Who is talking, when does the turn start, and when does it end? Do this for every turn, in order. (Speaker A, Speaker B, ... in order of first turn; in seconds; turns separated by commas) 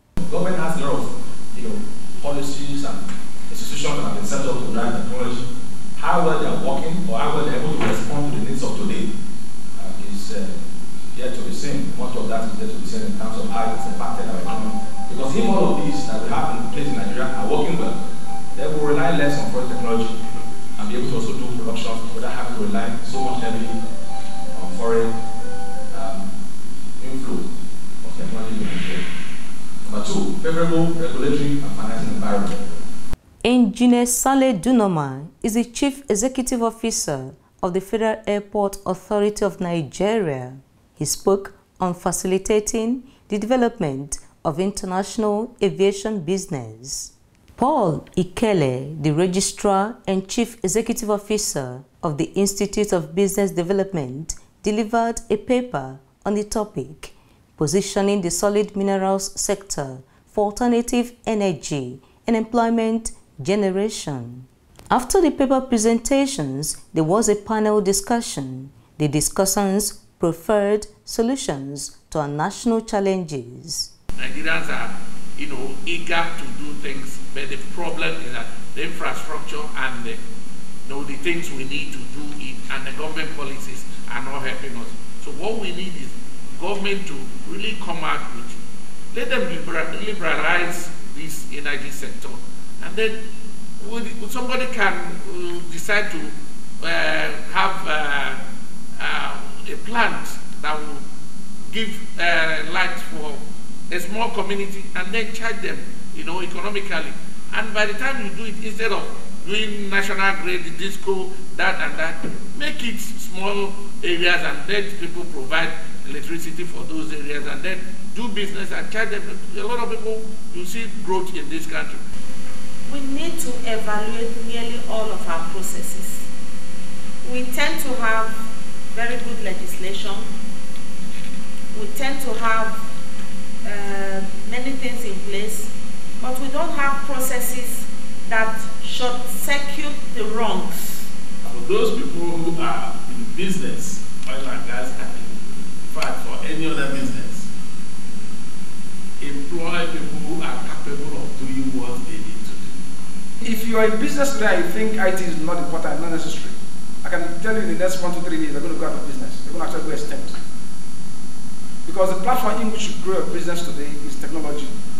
Speaker A: 0.2-9.1, Speaker A: 9.8-10.6, Speaker A: 11.1-18.0, Speaker A: 18.6-20.1, Speaker A: 20.8-23.8, Speaker A: 24.5-25.1, Speaker A: 25.9-26.3, Speaker A: 27.0-27.5, Speaker A: 28.0-29.0, Speaker A: 29.9-32.6, Speaker B: 33.4-73.9, Speaker C: 74.2-80.2, Speaker C: 80.8-88.6, Speaker C: 89.1-93.2, Speaker C: 93.8-98.4, Speaker C: 99.0-101.0, Speaker C: 101.7-122.0, Speaker D: 122.9-126.3, Speaker D: 127.2-128.4, Speaker D: 128.9-130.3, Speaker D: 131.7-132.8, Speaker D: 133.7-141.1, Speaker C: 141.6-142.1, Speaker E: 141.7-142.2, Speaker C: 142.9-143.8, Speaker E: 143.2-144.8, Speaker C: 145.9-147.3, Speaker E: 146.5-147.0, Speaker A: 153.4-160.3, Speaker A: 161.8-164.7